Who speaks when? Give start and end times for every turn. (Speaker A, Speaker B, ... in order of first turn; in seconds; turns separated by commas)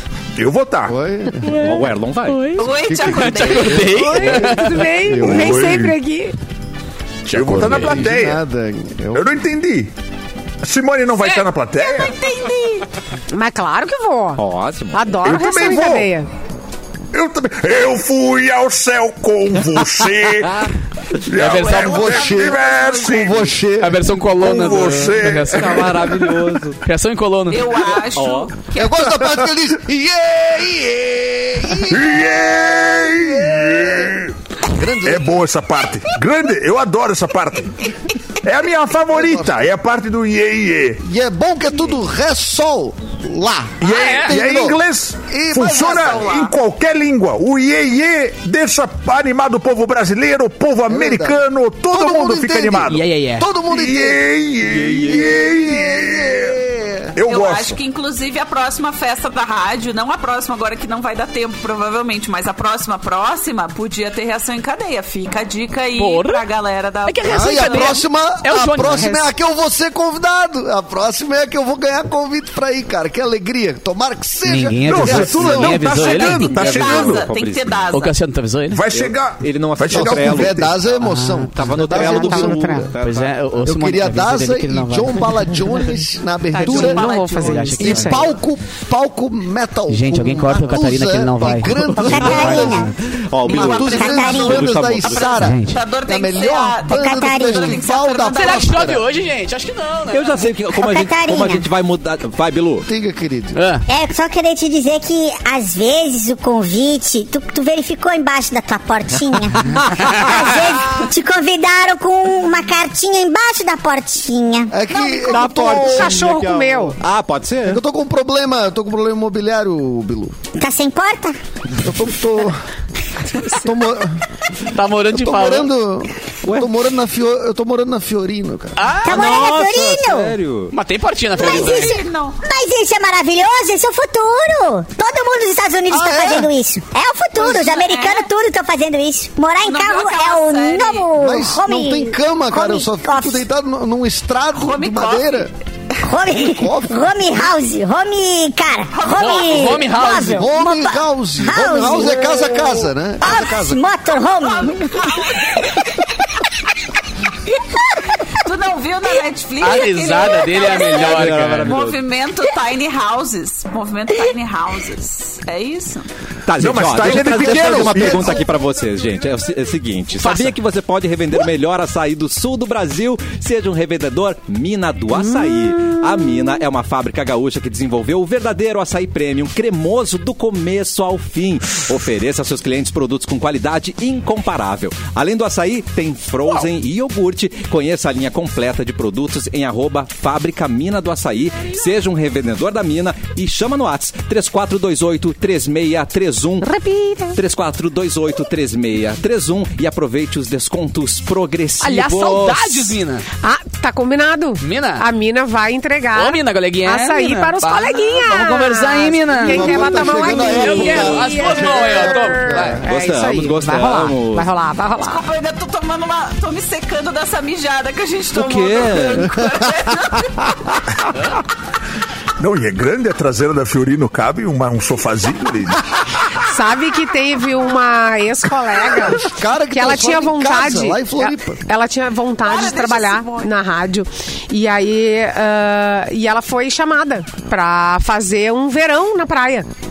Speaker A: 0.3-0.9, Speaker B: 0.9-1.5, Speaker C: 1.4-4.9, Speaker D: 1.6-2.5, Speaker E: 2.5-4.1, Speaker B: 2.8-4.2, Speaker F: 3.9-6.3, Speaker B: 5.0-5.7, Speaker A: 5.2-6.0, Speaker C: 7.2-8.1, Speaker A: 7.3-8.4, Speaker B: 7.9-9.3, Speaker A: 9.1-9.9, Speaker A: 10.6-12.1, Speaker E: 11.2-12.9, Speaker F: 13.3-16.3, Speaker D: 14.4-15.1, Speaker A: 15.2-16.1, Speaker A: 17.1-20.6, Speaker A: 21.2-23.5, Speaker C: 21.3-22.1, Speaker E: 21.4-23.4, Speaker B: 21.7-24.1, Speaker C: 23.7-26.1, Speaker A: 24.3-25.8, Speaker D: 25.5-26.8, Speaker C: 26.8-27.7, Speaker E: 27.5-29.0, Speaker D: 28.1-28.5, Speaker B: 28.7-32.2, Speaker A: 31.9-34.3, Speaker B: 33.0-34.2, Speaker B: 34.7-35.4, Speaker A: 35.0-37.9, Speaker A: 38.4-41.0, Speaker B: 39.1-39.5, Speaker B: 41.0-46.2, Speaker A: 43.8-53.0, Speaker C: 43.9-44.4, Speaker E: 45.6-46.5, Speaker B: 50.9-51.4, Speaker B: 51.9-57.2, Speaker C: 52.9-53.5, Speaker A: 53.7-56.5, Speaker D: 54.9-55.3, Speaker A: 57.1-57.8, Speaker E: 57.2-68.0, Speaker C: 66.0-66.4, Speaker C: 67.0-69.2, Speaker B: 67.3-76.0, Speaker C: 74.4-76.8, Speaker A: 74.9-77.3, Speaker E: 75.9-78.1, Speaker D: 76.7-77.8, Speaker C: 77.9-78.8, Speaker A: 78.7-80.8, Speaker D: 78.9-80.9, Speaker B: 79.9-82.9, Speaker C: 81.0-81.7, Speaker D: 81.5-83.5, Speaker F: 82.0-82.9, Speaker C: 83.0-85.5, Speaker B: 83.6-87.1, Speaker F: 86.5-88.3, Speaker C: 86.6-88.3, Speaker E: 86.7-87.8, Speaker B: 87.8-92.9, Speaker C: 89.9-92.3, Speaker G: 92.0-92.9, Speaker D: 92.1-95.3, Speaker E: 93.4-98.9, Speaker B: 93.4-99.0, Speaker G: 93.8-94.6, Speaker C: 95.3-95.8, Speaker G: 96.9-97.7, Speaker C: 98.3-100.4, Speaker D: 100.1-102.9, Speaker G: 100.8-101.7, Speaker B: 102.9-103.5, Speaker C: 103.5-103.8, Speaker G: 103.9-114.7, Speaker D: 110.1-110.5, Speaker B: 114.7-116.3, Speaker D: 115.1-117.8, Speaker F: 115.7-117.0, Speaker B: 117.7-120.4, Speaker G: 120.6-121.4, Speaker B: 121.8-122.6, Speaker B: 123.4-124.2, Speaker C: 124.7-125.7, Speaker B: 125.1-128.8, Speaker D: 126.4-126.7, Speaker C: 128.8-129.4, Speaker G: 129.0-130.3, Speaker D: 129.1-130.7, Speaker C: 130.7-132.0, Speaker E: 131.3-132.4, Speaker G: 131.4-143.4, Speaker B: 135.9-136.5, Speaker E: 137.7-138.2, Speaker E: 139.6-141.1, Speaker B: 141.2-145.5, Speaker E: 144.5-145.5, Speaker G: 146.0-155.4, Speaker B: 146.4-147.1, Speaker E: 148.9-149.9, Speaker C: 149.1-150.5, Speaker B: 150.3-153.8, Speaker E: 154.6-155.2, Speaker E: 158.4-166.1, Speaker C: 159.6-161.8, Speaker D: 160.8-162.0, Speaker D: 166.4-196.7, Speaker A: 166.6-168.4, Speaker B: 167.2-168.2, Speaker C: 170.2-170.6, Speaker F: 196.6-197.4, Speaker D: 197.3-202.9, Speaker C: 201.8-203.2, Speaker F: 203.4-215.2, Speaker C: 204.6-205.0, Speaker C: 206.1-212.8, Speaker B: 209.4-212.8, Speaker D: 212.8-214.5, Speaker E: 215.0-220.6, Speaker D: 218.3-219.4, Speaker A: 222.4-225.8, Speaker F: 226.4-239.7, Speaker B: 229.0-231.6, Speaker E: 232.4-233.5